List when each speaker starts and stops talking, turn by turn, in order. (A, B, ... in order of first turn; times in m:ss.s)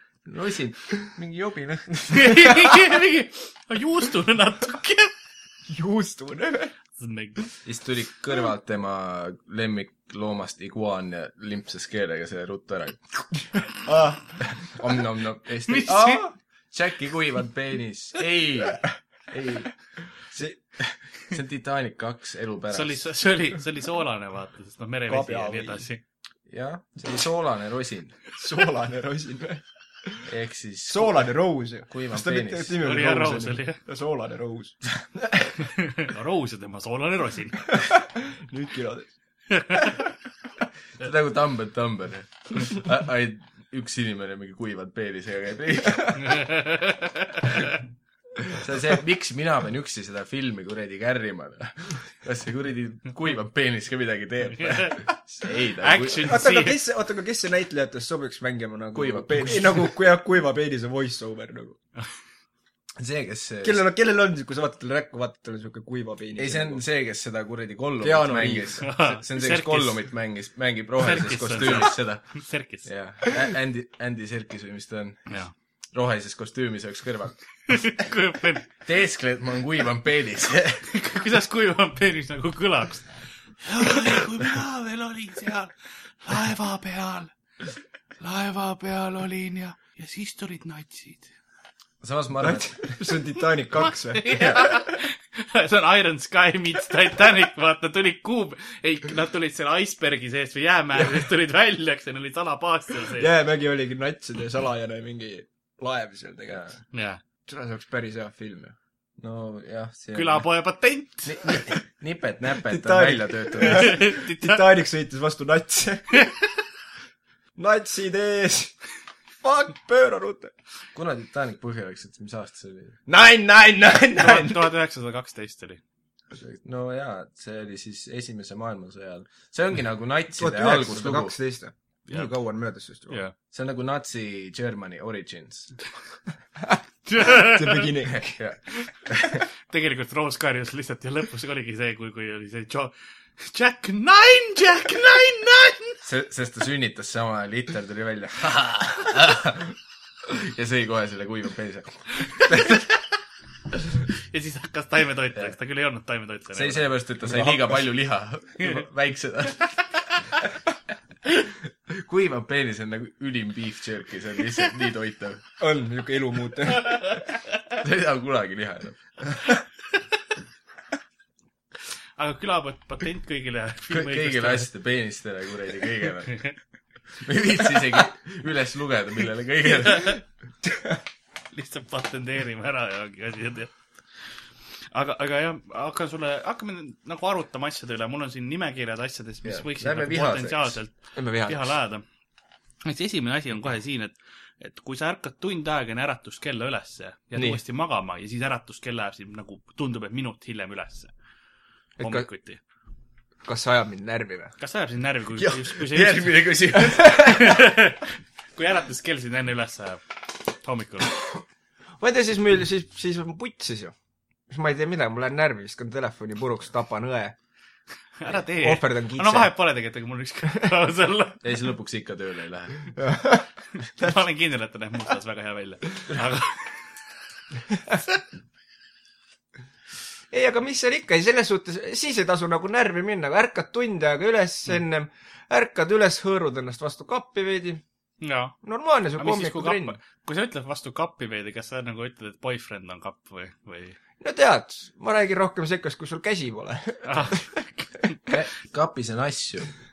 0:00.2-0:02.8 A
0:02.1-0:05.1 B
0:05.7-0:06.7 C
0:07.0-0:07.4 B
0:07.6-0:13.0 A
0:13.8-0:14.2 C
0:14.4-0:19.7 A
0:15.7-0:16.2 B
0:20.3-0:20.6 C
0:20.8-0:23.0 A
0:22.7-0:26.0 B
0:25.1-0:25.8 C
0:26.5-0:28.2 A
0:28.4-0:30.2 C
0:30.2-0:31.3 A
0:30.9-0:35.4 C
0:31.9-0:32.8 A
0:32.8-0:33.8 B
0:35.6-0:37.8 B
0:37.7-0:39.1 C
0:39.5-0:40.0 B
0:41.0-0:46.4 A
0:46.2-0:47.8 B
0:48.4-0:56.4 A
0:55.8-0:56.8 B
0:56.2-1:01.8 C
0:58.9-1:00.0 A
1:03.0-1:03.8 A
1:03.6-1:06.8 C
1:06.4-1:12.3 A
1:08.0-1:08.8 C
1:08.8-1:10.0 B
1:11.0-1:12.9 B
1:12.8-1:15.3 A
1:15.9-1:17.4 A
1:17.7-1:18.7 B
1:18.8-1:20.9 A
1:20.9-1:27.3 B
1:28.2-1:31.3 B
1:32.0-1:32.9 A
1:32.4-1:34.5 C
1:33.8-1:43.3 B
1:34.3-1:34.6 A
1:43.1-1:46.7 C
1:46.5-1:46.7 A
1:46.9-1:47.2 B
1:47.5-1:48.7 C
1:49.2-1:50.4 A
1:50.1-1:51.5 B
1:51.2-1:54.1 A
1:52.6-1:56.2 C
1:53.6-1:54.6 B
1:57.6-1:58.8 C
1:59.4-2:00.5 C
2:00.9-2:03.0 A
2:03.1-2:04.7 C
2:04.1-2:05.8 B
2:06.3-2:11.3 A
2:10.4-2:13.2 C
2:13.1-2:13.3 B
2:13.5-2:15.7 A
2:16.6-2:18.4 C
2:17.0-2:17.9 B
2:18.2-2:19.4 A
2:19.7-2:26.0 B
2:26.0-2:32.9 A
2:34.2-2:36.9 B
2:36.5-2:39.8 A
2:37.2-2:37.8 C
2:41.3-2:45.4 A
2:45.6-2:47.0 C
2:46.9-2:47.2 B
2:47.8-2:49.2 A
2:52.2-2:54.7 B
2:53.9-2:56.4 A
2:57.2-3:00.2 A
3:00.6-3:01.0 C
3:01.5-3:03.7 B
3:04.9-3:10.9 B
3:09.4-3:10.8 A
3:11.1-3:11.7 C
3:11.4-3:12.0 B
3:12.8-3:21.1 B
3:22.0-3:22.3 C
3:22.0-3:22.6 B
3:23.4-3:24.5 C
3:24.6-3:26.4 B
3:25.4-3:27.5 A
3:27.0-3:30.0 B
3:30.6-3:31.1 B
3:32.0-3:33.9 C
3:34.5-3:37.4 C
3:38.2-3:41.4 B
3:38.5-3:39.5 C
3:41.4-3:42.9 A
3:43.0-3:43.5 C
3:43.8-3:46.9 B
3:50.3-3:57.8 C
3:58.2-3:58.6 B
3:58.6-4:00.0 C
3:59.2-4:04.0 B
4:04.2-4:07.6 C
4:07.0-4:07.9 B
4:08.3-4:09.7 A